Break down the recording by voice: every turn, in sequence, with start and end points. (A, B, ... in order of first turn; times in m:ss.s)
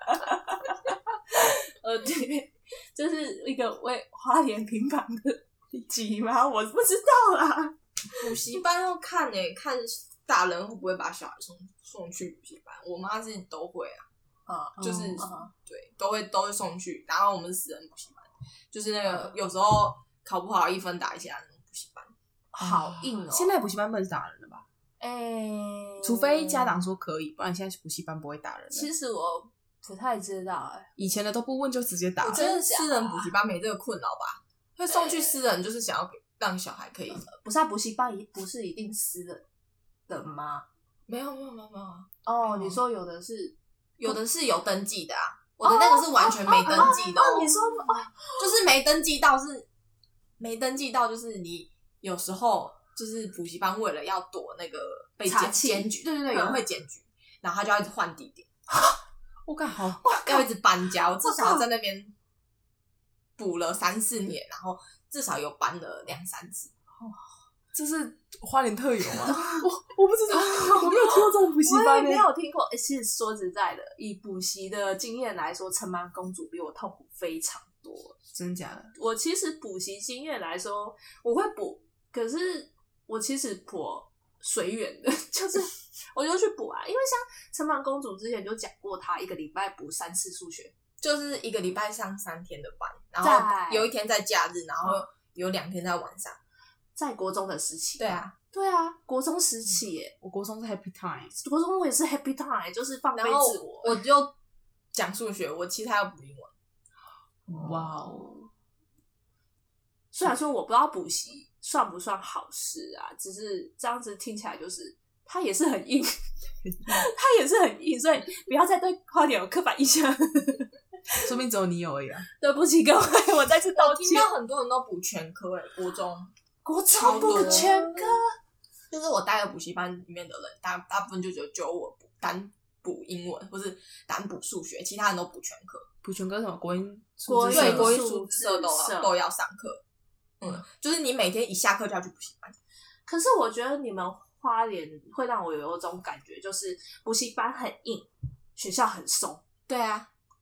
0:00.1-0:08.3 A
0:08.2-0:14.1 B
0:14.5-0:15.5 A
0:14.8-0:15.3 C
0:14.8-0:22.1 B
0:19.1-0:19.3 A
0:22.5-0:23.5 A
0:22.6-0:24.7 C
0:25.0-0:26.8 A
0:26.0-0:28.9 C
0:28.7-0:30.9 A
0:31.0-0:32.5 C
0:32.2-0:37.2 B
0:32.3-0:33.3 A
0:34.9-0:35.4 A
0:37.2-0:39.4 A
0:40.1-0:40.7 A
0:41.1-0:42.8 B
0:42.3-0:43.6 A
0:44.0-0:47.6 B
0:45.6-0:48.4 A
0:48.4-0:49.7 B
0:50.4-0:58.5 B
0:55.3-0:56.6 A
0:59.5-1:00.0 C
1:00.0-1:00.5 A
1:00.2-1:02.1 B
1:01.2-1:01.7 A
1:03.4-1:06.7 B
1:07.0-1:07.3 A
1:07.7-1:12.3 C
1:09.3-1:09.6 A
1:10.3-1:18.2 A
1:18.3-1:18.9 C
1:19.0-1:30.7 A
1:31.0-1:36.4 B
1:33.2-1:33.9 A
1:37.0-1:40.1 A
1:38.0-1:38.3 B
1:40.2-1:41.4 C
1:41.4-1:44.0 A
1:43.2-1:44.3 B
1:44.9-1:46.5 B
1:47.5-1:48.5 C
1:50.1-1:56.2 A
1:56.7-1:57.1 C
1:56.8-2:01.3 A
2:01.2-2:02.3 C
2:02.4-2:04.3 A
2:03.8-2:06.3 B
2:06.6-2:08.3 A
2:06.9-2:08.0 B
2:07.3-2:07.7 C
2:08.9-2:15.9 B
2:16.0-2:18.0 C
2:17.3-2:19.1 A
2:17.5-2:19.8 B
2:20.4-2:22.6 B
2:23.1-2:29.4 A
2:29.7-2:30.1 B